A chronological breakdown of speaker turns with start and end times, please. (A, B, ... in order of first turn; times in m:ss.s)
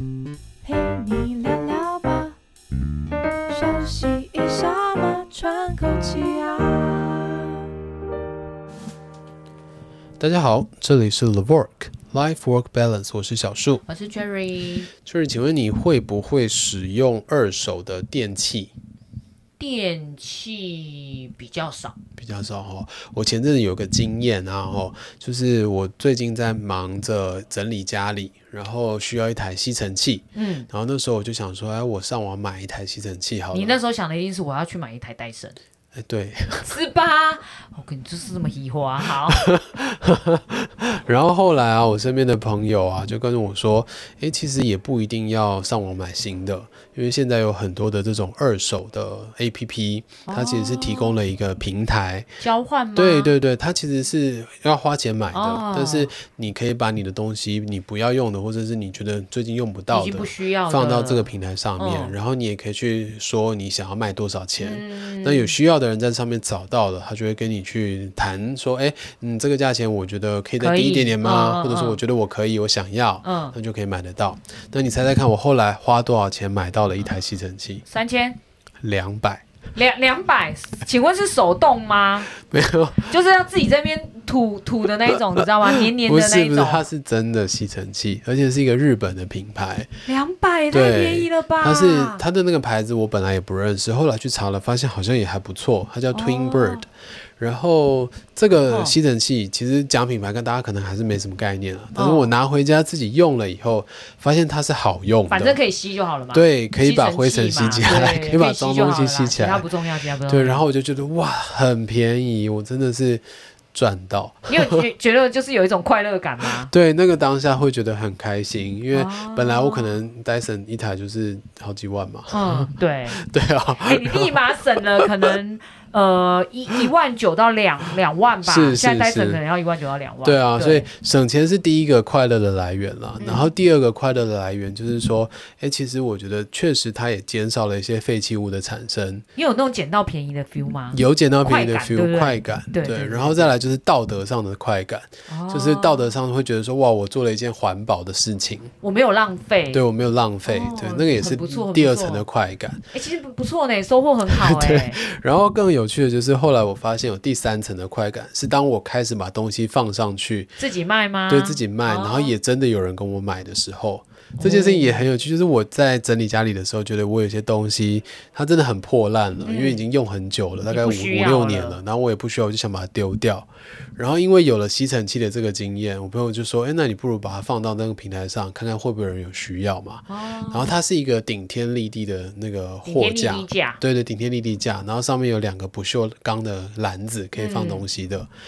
0:00.6-0:02.4 A
0:03.5-0:07.6 A
0:10.2-0:13.8 B
0:13.9-0:14.9 C
0:15.0-0:18.7 B
0:19.6-0:22.0 C
0:22.2-0:33.8 B
0:30.4-0:30.7 C
0:33.5-0:35.6 C
0:36.0-0:36.7 B
0:36.6-0:39.4 C
0:39.0-0:52.3 B
0:50.3-0:51.2 C
0:52.4-0:53.3 C
0:53.0-1:17.8 B
0:55.3-0:56.1 C
0:59.9-1:02.2 C
1:04.6-1:05.5 C
1:10.6-1:12.0 C
1:13.2-1:13.6 C
1:17.9-1:18.4 C
1:18.8-1:19.4 B
1:19.7-1:22.3 C
1:22.3-1:23.2 B
1:23.0-1:26.9 C
1:25.9-1:29.9 B
1:30.1-1:32.2 C
1:30.7-1:45.6 B
1:36.1-1:36.8 C
1:38.7-1:39.0 C
1:42.0-1:42.3 C
1:45.3-1:50.6 C
1:46.3-1:49.7 B
1:50.2-1:54.9 B
1:54.5-1:56.7 C
1:56.6-2:04.4 B
1:58.9-1:59.9 C
2:02.3-2:03.2 C
2:03.8-2:10.9 C
2:08.4-2:09.4 B
2:10.2-2:19.2 B
2:13.2-2:13.5 C
2:19.4-2:23.5 C
2:20.9-2:28.7 B
2:25.3-2:26.2 C
2:28.8-2:29.8 C
2:29.7-2:32.8 B
2:30.5-2:32.3 C
2:32.9-2:35.0 C
2:34.3-2:40.6 B
2:40.6-2:42.3 C
2:41.3-3:08.3 B
2:44.4-2:45.1 C
2:49.4-2:49.8 C
2:50.7-2:51.8 C
3:00.1-3:00.7 C
3:02.8-3:03.8 C
3:07.4-3:07.9 C